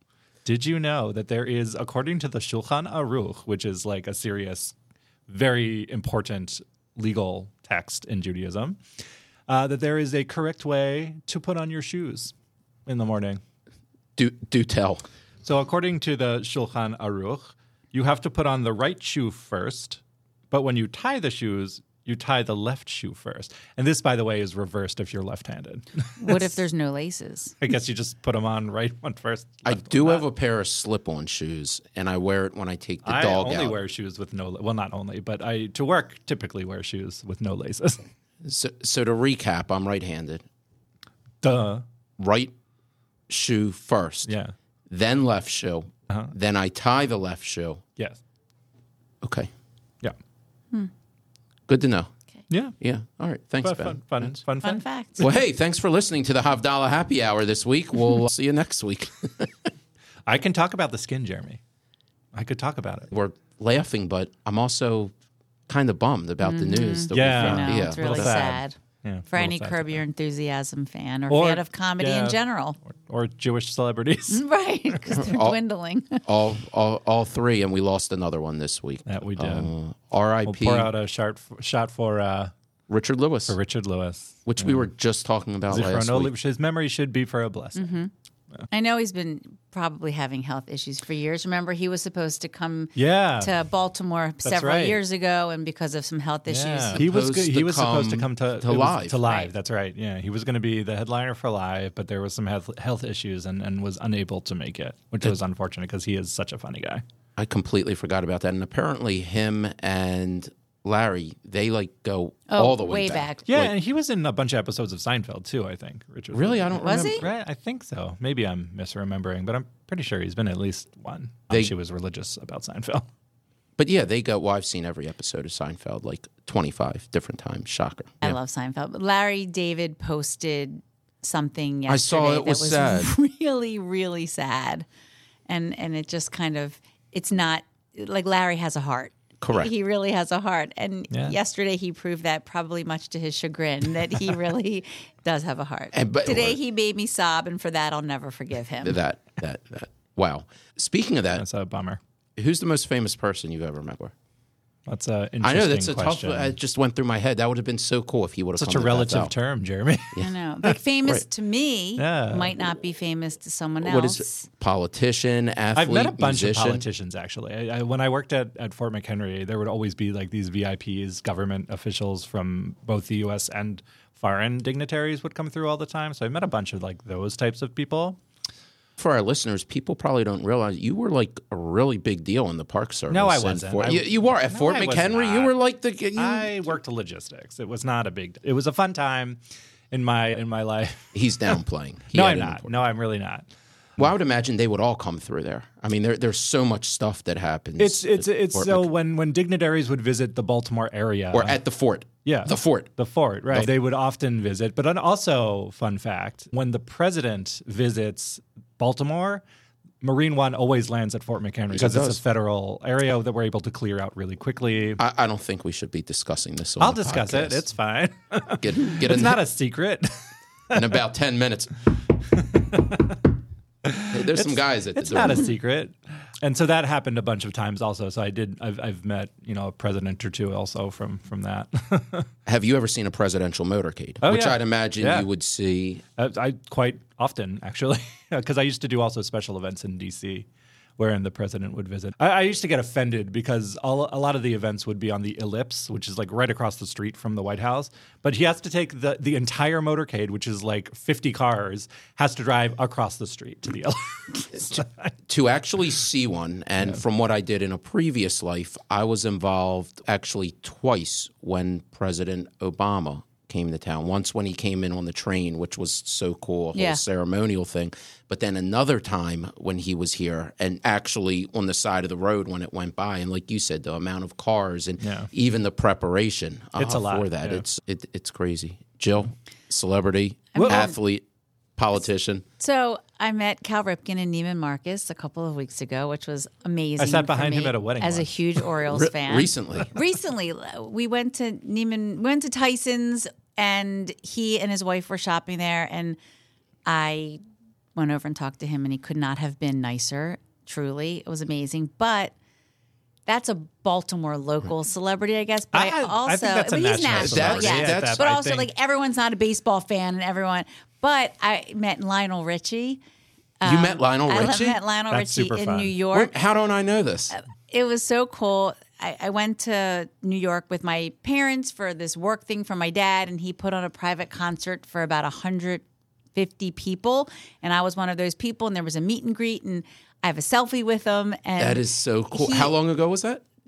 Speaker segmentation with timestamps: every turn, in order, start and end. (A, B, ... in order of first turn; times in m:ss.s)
0:00.4-0:04.7 A
0:05.3-0:08.8 A
0:09.5-0:12.3 A
0:12.9-0:13.4 A
0:14.2-0:15.0 B
0:15.4-0:20.0 A
0:20.5-0:26.6 A
0:26.2-0:27.5 C
0:27.6-0:30.2 A
0:29.6-0:33.8 B
0:33.0-0:38.0 A
0:38.4-0:40.4 B
0:41.4-0:41.8 A
0:42.2-0:42.5 B
0:43.3-0:44.3 B
0:44.2-0:44.5 A
0:44.9-0:47.8 B
0:49.2-0:49.5 B
0:51.7-0:52.1 B
0:52.5-0:52.7 A
0:52.8-0:54.4 B
0:53.6-0:54.8 A
0:54.6-0:55.2 C
0:55.2-0:59.7 B
1:00.3-1:01.6 A
1:02.3-1:03.1 A
1:03.1-1:05.1 B
1:05.7-1:08.3 B
1:06.4-1:08.8 C
1:07.1-1:10.0 A
1:09.3-1:12.8 C
1:11.3-1:14.4 A
1:14.3-1:16.2 C
1:15.1-1:15.6 B
1:16.2-1:20.9 B
1:19.0-1:19.7 A
1:20.4-1:22.5 A
1:22.9-1:23.6 B
1:23.5-1:24.9 A
1:24.4-1:26.3 B
1:25.7-1:27.9 A
1:27.7-1:28.1 C
1:28.7-1:37.0 C
1:32.9-1:33.5 A
1:34.4-1:35.0 A
1:36.5-1:47.0 A
1:36.9-1:39.2 B
1:47.4-1:53.7 B
1:52.5-1:53.4 C
1:53.5-2:03.0 A
1:56.3-1:57.2 B
1:56.8-1:57.2 C
2:03.8-2:08.3 B
2:08.2-2:14.8 C
2:11.9-2:13.1 B
2:15.5-2:29.0 C
2:19.4-2:19.7 B
2:21.1-2:21.4 A
2:25.9-2:26.6 B
2:28.8-2:31.4 B
2:31.3-2:32.0 A
2:32.4-2:34.1 B
2:34.9-2:36.6 A
2:35.4-2:39.3 B
2:38.6-2:40.7 A
2:40.2-2:44.5 C
2:42.0-2:42.6 A
2:43.8-2:46.8 B
2:45.7-2:58.2 A
2:59.0-3:06.5 B
3:03.1-3:05.6 A
3:06.2-3:09.4 A
3:09.9-3:11.1 A
3:11.1-3:12.7 B
3:12.1-3:13.4 A
3:14.0-3:18.9 B
3:17.8-3:21.6 A
3:21.3-3:22.9 B
3:22.2-3:29.4 A
3:30.0-3:35.0 A
3:31.7-3:32.2 B
3:35.0-3:37.6 B
3:36.8-3:40.8 A
3:38.5-3:39.4 B
3:40.7-3:41.8 B
3:42.4-3:43.2 A
3:43.8-3:52.3 A
3:44.1-3:45.5 B
3:52.4-3:56.0 B
3:54.2-3:55.3 A
3:56.2-4:00.5 A
4:01.0-4:15.0 A
4:15.3-4:41.2 B
4:26.7-4:27.0 C
4:35.0-4:35.3 A
4:36.8-4:37.6 A
4:40.5-4:40.9 C
4:40.6-4:40.9 A
4:41.8-4:42.4 B
4:42.6-4:56.2 C
4:47.0-4:48.3 A
4:48.8-4:49.9 B
4:56.8-4:57.4 C
4:57.9-5:02.3 C
5:03.2-5:13.0 C
5:05.7-5:08.7 A
5:07.2-5:08.2 B
5:13.6-5:16.3 C
5:13.6-5:14.8 B
5:15.1-5:16.0 A
5:16.1-5:17.3 B
5:17.3-5:25.8 C
5:26.3-5:32.7 C
5:31.6-5:33.4 B